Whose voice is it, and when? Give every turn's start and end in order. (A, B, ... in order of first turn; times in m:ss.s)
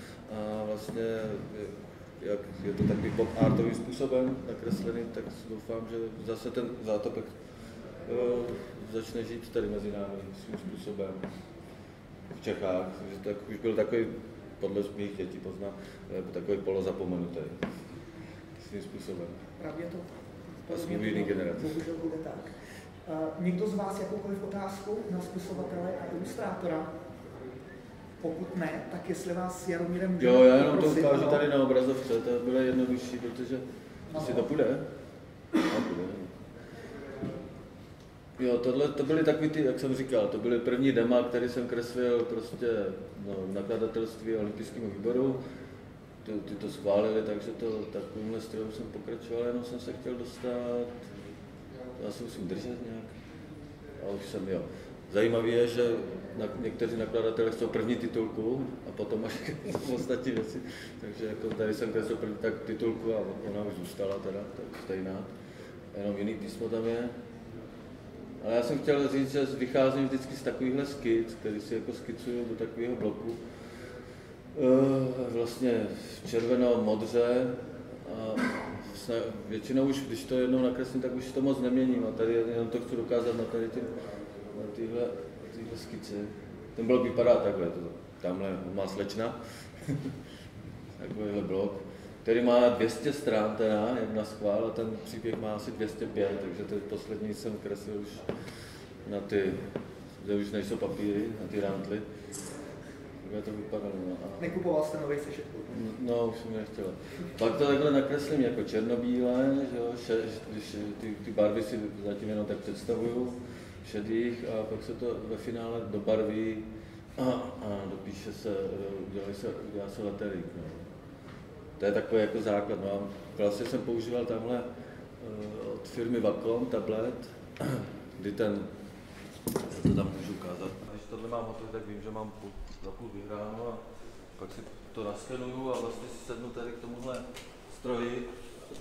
0:00.3-0:07.3 A
0:08.0-0:11.2 A
0:12.3-0:17.6 A
0:18.6-0:19.4 A
0:19.6-0:26.9 B
0:20.7-0:21.8 A
0:28.2-0:31.5 B
0:30.2-0:34.9 A
0:34.1-0:34.5 B
0:35.6-0:36.4 A
0:38.4-0:45.4 A
0:46.2-0:51.0 A
0:52.0-0:53.1 A
0:54.0-1:05.3 A
1:05.9-1:07.1 A
1:08.4-1:13.4 A
1:14.5-1:23.9 A
1:24.5-1:30.1 A
1:31.0-1:38.3 A
1:39.0-1:42.0 A
1:43.2-1:44.5 A
1:44.4-1:45.8 B
1:45.7-2:00.9 A
2:01.8-2:04.7 A
2:05.2-2:08.7 A
2:09.6-2:13.8 A
2:14.4-2:18.4 A